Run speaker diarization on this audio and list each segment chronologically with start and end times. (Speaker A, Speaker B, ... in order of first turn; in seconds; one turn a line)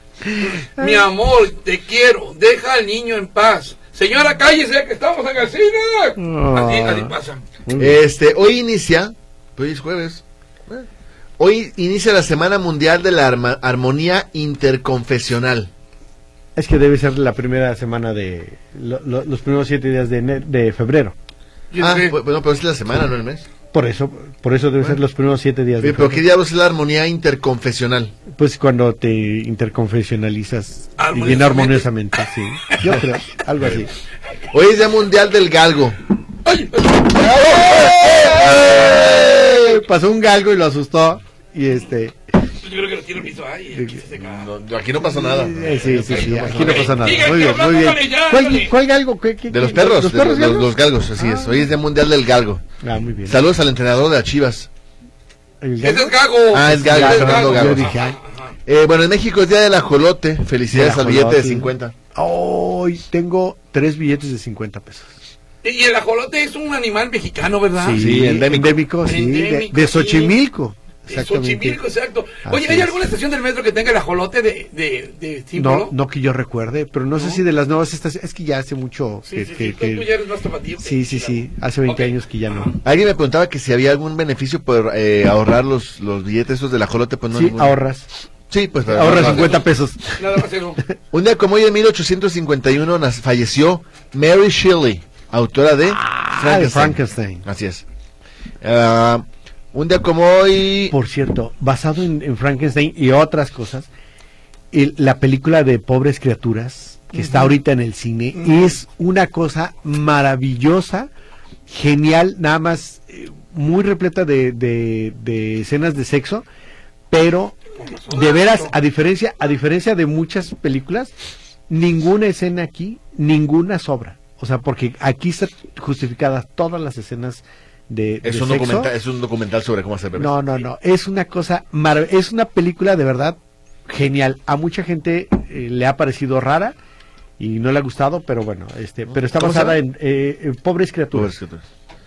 Speaker A: 0.2-1.0
Speaker B: 0.4-7.4
Speaker A: 6.2-7.1
Speaker A: 7.7-8.0
Speaker C: 7.8-10.9
Speaker C: 11.4-15.7
Speaker A: 16.6-21.1
Speaker B: 21.7-22.1
Speaker C: 21.8-23.5
Speaker A: 23.7-26.2
Speaker C: 25.8-28.1
Speaker A: 28.3-33.9
Speaker B: 31.0-31.9
Speaker C: 33.6-33.9
Speaker C: 34.5-36.0
Speaker B: 36.4-39.3
Speaker C: 37.1-39.8
Speaker A: 38.5-42.2
Speaker B: 42.6-44.5
Speaker A: 43.7-44.0
Speaker C: 44.2-47.0
Speaker A: 45.0-51.7
Speaker B: 46.1-48.7
Speaker C: 49.5-52.6
Speaker A: 52.8-53.4
Speaker C: 53.2-54.7
Speaker A: 55.6-58.2
Speaker B: 55.8-58.5
Speaker C: 56.5-57.9
Speaker C: 58.6-61.9
Speaker A: 60.7-65.1
Speaker B: 65.6-68.0
Speaker A: 67.8-71.8
Speaker C: 68.0-68.8
Speaker B: 69.0-70.3
Speaker B: 71.1-75.9
Speaker A: 72.4-72.9
Speaker A: 75.5-80.1
Speaker B: 77.2-77.4
Speaker B: 79.3-82.8
Speaker A: 80.8-82.7
Speaker C: 82.8-87.8
Speaker A: 87.3-88.1
Speaker C: 88.5-89.6
Speaker A: 88.9-90.2
Speaker B: 89.0-89.6
Speaker B: 90.2-90.8
Speaker C: 91.1-97.8
Speaker A: 95.9-97.4
Speaker C: 98.6-100.9
Speaker A: 100.9-103.9
Speaker A: 104.7-111.1
Speaker B: 107.2-107.5
Speaker A: 111.7-116.4
Speaker A: 117.1-117.6
Speaker B: 117.8-118.7
Speaker A: 118.1-121.1
Speaker A: 121.7-128.9
Speaker C: 128.2-130.3
Speaker A: 130.2-133.4
Speaker A: 133.9-136.8
Speaker A: 137.4-141.3
Speaker C: 139.2-139.8
Speaker C: 141.1-141.7